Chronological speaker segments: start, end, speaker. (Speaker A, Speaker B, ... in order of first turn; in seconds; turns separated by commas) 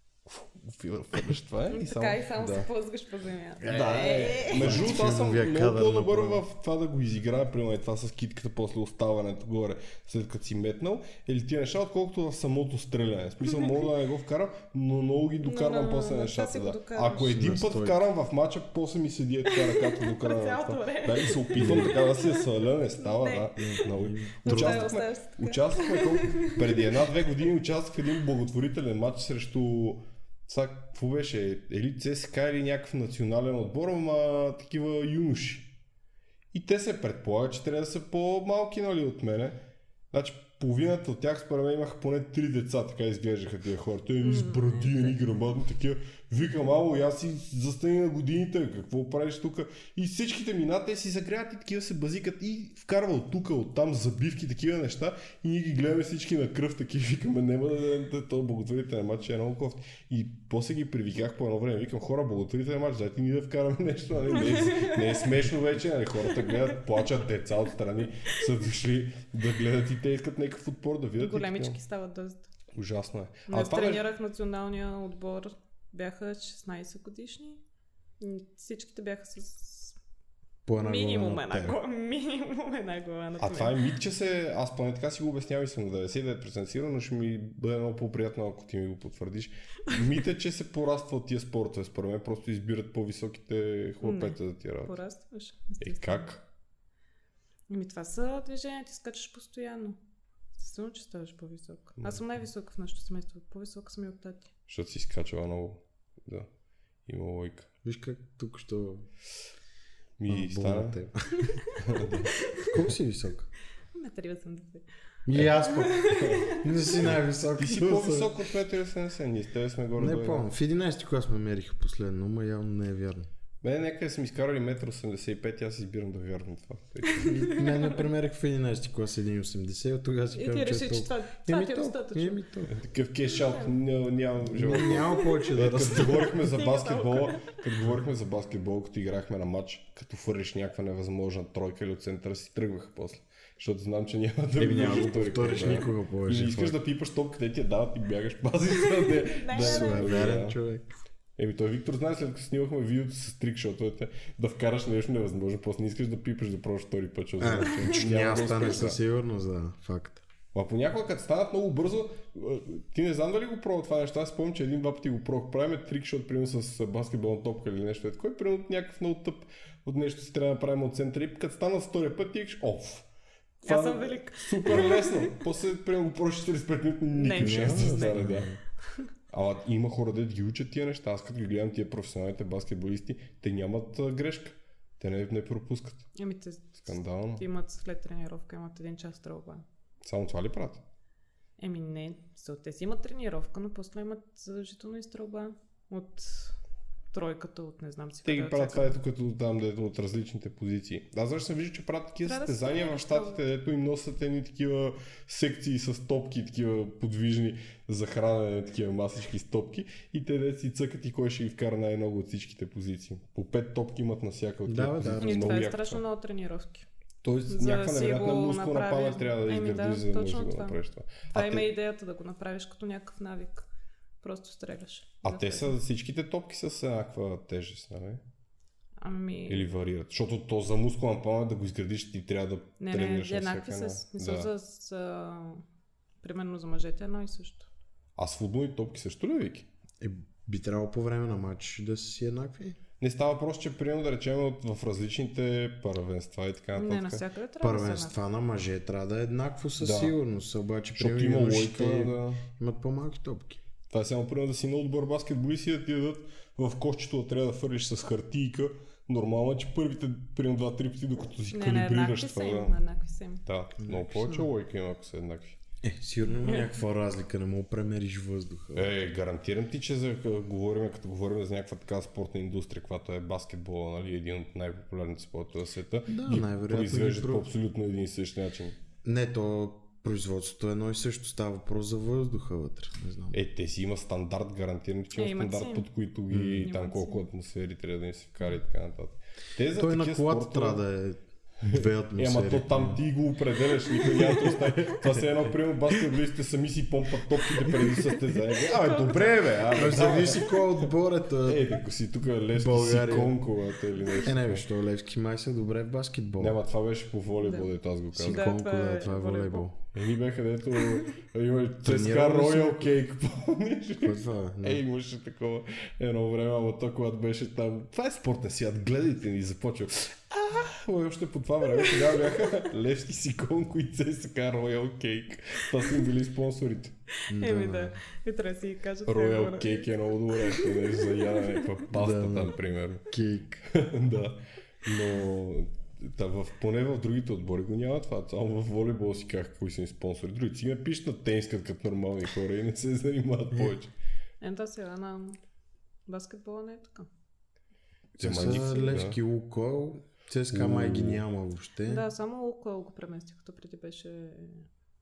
Speaker A: 0.2-2.7, Speaker B: 1.7-4.9, Speaker C: 3.6-6.4, Speaker A: 3.6-35.7, Speaker B: 15.4-17.4, Speaker C: 17.2-18.0, Speaker B: 19.5-22.4, Speaker C: 21.6-21.9, Speaker B: 23.0-23.8, Speaker C: 23.6-24.9, Speaker B: 24.4-27.0, Speaker A: 36.5-39.6, Speaker A: 40.1-71.8, Speaker B: 44.2-45.1, Speaker B: 64.3-65.3, Speaker B: 71.2-72.4, Speaker A: 72.7-74.0, Speaker B: 73.5-77.6, Speaker B: 78.2-80.0, Speaker C: 80.6-81.8, Speaker B: 80.8-83.9, Speaker A: 83.4-95.0, Speaker B: 94.0-96.3, Speaker A: 95.8-96.4, Speaker B: 97.7-100.0, Speaker B: 100.5-104.5, Speaker A: 104.7-106.5, Speaker A: 107.0-107.7, Speaker C: 107.8-109.1, Speaker A: 110.2-111.0, Speaker C: 110.3-111.5, Speaker B: 111.4-112.7, Speaker A: 111.8-112.8, Speaker C: 112.7-113.5, Speaker B: 113.9-114.8, Speaker C: 115.2-118.3, Speaker B: 115.6-117.0, Speaker A: 116.0-120.5, Speaker C: 120.0-123.3, Speaker A: 123.6-127.3, Speaker B: 127.1-128.0, Speaker C: 127.2-132.7, Speaker B: 130.3-132.4, Speaker A: 132.7-150.6, Speaker B: 133.3-133.7, Speaker C: 134.4-136.3, Speaker B: 135.1-137.6, Speaker C: 144.6-146.8, Speaker B: 145.2-145.8, Speaker B: 148.8-150.3, Speaker C: 149.5-150.8, Speaker A: 151.4-159.0, Speaker C: 157.4-160.2, Speaker B: 157.7-158.8, Speaker A: 160.5-173.1, Speaker A: 173.6-178.5, Speaker B: 173.6-175.4, Speaker B: 177.1-178.3, Speaker C: 177.4-178.6, Speaker A: 179.3-186.1, Speaker B: 186.1-189.6, Speaker A: 186.8-187.4, Speaker A: 190.0-190.8, Speaker B: 191.6-196.6, Speaker B: 197.1-199.0, Speaker A: 198.2-216.0, Speaker B: 202.2-203.4, Speaker C: 214.7-215.7, Speaker B: 215.2-216.8, Speaker A: 217.2-221.7, Speaker B: 217.5-220.8, Speaker B: 221.3-223.7, Speaker B: 224.2-225.8, Speaker A: 225.2-228.2, Speaker B: 229.0-229.7, Speaker A: 229.5-234.5, Speaker B: 232.8-235.6, Speaker B: 236.2-237.7, Speaker A: 238.2-239.7, Speaker C: 240.0-242.8, Speaker A: 243.0-247.2, Speaker B: 246.7-248.2, Speaker C: 247.6-253.6, Speaker A: 249.8-250.1, Speaker A: 250.9-252.4, Speaker A: 253.9-262.8, Speaker B: 261.5-263.4, Speaker A: 263.4-265.6, Speaker C: 263.8-264.5, Speaker C: 265.8-268.9, Speaker B: 266.4-266.7, Speaker A: 268.7-278.8, Speaker C: 276.1-277.5, Speaker C: 279.0-283.4, Speaker A: 283.3-290.8, Speaker B: 285.1-285.9, Speaker C: 286.3-286.7, Speaker B: 286.6-287.2, Speaker C: 289.7-293.0, Speaker A: 291.6-300.9, Speaker C: 294.0-295.2, Speaker C: 297.7-298.0, Speaker B: 298.6-300.2, Speaker C: 299.7-301.8, Speaker A: 301.4-304.6, Speaker C: 302.5-303.4, Speaker C: 304.2-306.6, Speaker A: 306.4-308.5, Speaker B: 307.4-307.7, Speaker C: 308.1-309.8, Speaker B: 308.2-309.7, Speaker A: 309.9-326.9, Speaker C: 311.8-312.9, Speaker C: 314.0-314.8, Speaker B: 321.9-322.1, Speaker B: 327.2-331.8, Speaker C: 327.3-328.0, Speaker A: 329.1-333.1, Speaker C: 331.9-332.6, Speaker C: 333.1-333.6, Speaker A: 333.7-343.9, Speaker B: 344.4-345.4, Speaker B: 346.1-347.1, Speaker A: 348.2-349.2, Speaker C: 348.2-352.0, Speaker B: 348.5-348.9, Speaker A: 350.5-351.2, Speaker B: 351.9-354.7